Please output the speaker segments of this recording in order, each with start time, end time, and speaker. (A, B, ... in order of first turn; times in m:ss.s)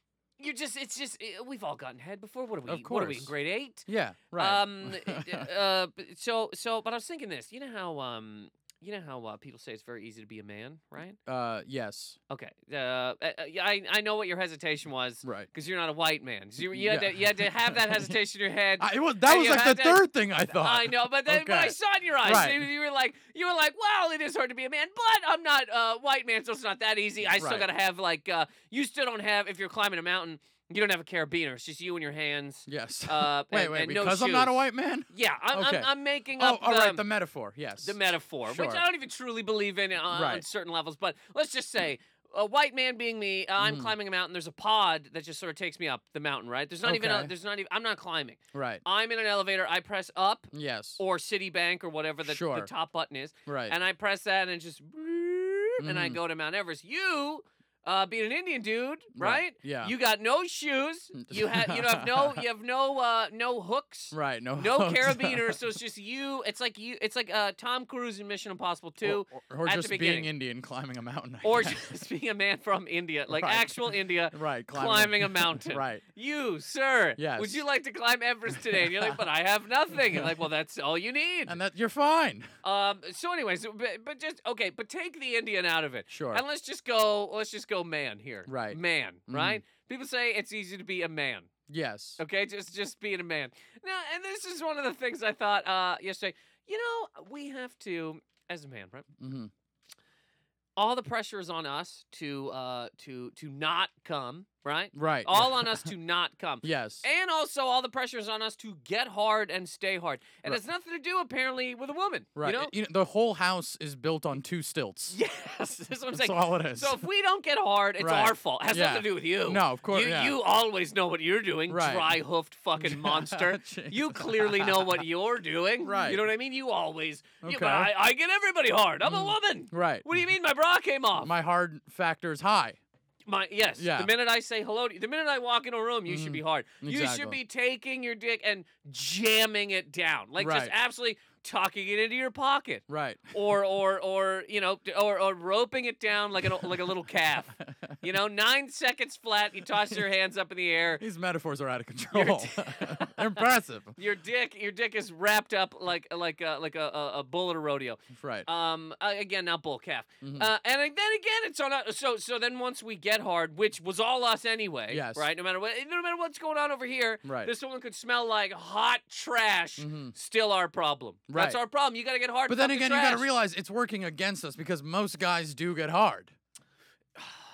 0:00.4-0:11.2 A
0:02.7-0:03.3 B
0:03.8-0:05.5 B
0:11.2-0:12.2 B
0:12.3-0:37.0 A
0:15.2-0:15.5 B
0:16.7-0:18.2 B
0:18.8-0:22.7 B
0:27.3-0:27.7 B
0:32.7-0:38.8 B
0:37.8-1:10.3 A
0:40.1-0:40.4 B
0:43.6-0:43.9 B
0:46.8-0:47.3 B
0:48.5-0:48.8 B
0:50.5-0:51.0 B
0:52.2-0:52.7 B
0:53.4-0:53.7 B
0:55.8-0:56.2 B
0:59.1-0:59.9 B
1:01.2-1:02.4 B
1:04.1-1:05.6 B
1:09.0-1:11.8 B
1:11.4-1:21.6 A
1:13.3-1:16.0 B
1:17.2-1:17.6 B
1:18.6-1:19.2 B
1:20.0-1:20.3 B
1:21.4-1:22.5 B
1:22.6-1:31.5 A
1:26.1-1:26.4 B
1:28.4-1:29.6 B
1:31.7-1:32.2 B
1:32.2-1:39.1 A
1:39.2-1:39.5 B
1:40.8-1:52.7 A
1:44.9-1:45.9 B
1:46.6-1:47.0 B
1:52.4-1:55.2 B
1:55.1-2:11.3 A
1:56.1-1:57.0 B
1:58.0-2:00.4 B
2:01.7-2:02.2 B
2:02.8-2:05.0 B
2:05.8-2:06.2 B
2:07.4-2:07.9 B
2:09.0-2:10.2 B
2:11.2-2:12.8 B
2:13.3-2:31.0 A
2:13.8-2:14.1 B
2:16.1-2:17.4 B
2:20.4-2:20.7 B
2:22.9-2:23.3 B
2:27.6-2:27.9 B
2:31.0-2:34.0 B
2:32.1-2:33.4 A
2:34.0-2:53.3 A
2:38.1-2:38.5 B
2:40.2-2:40.5 B
2:44.9-2:45.3 B
2:47.2-2:47.5 B
2:49.8-2:50.1 B
2:51.3-2:51.6 B
2:52.5-2:56.3 B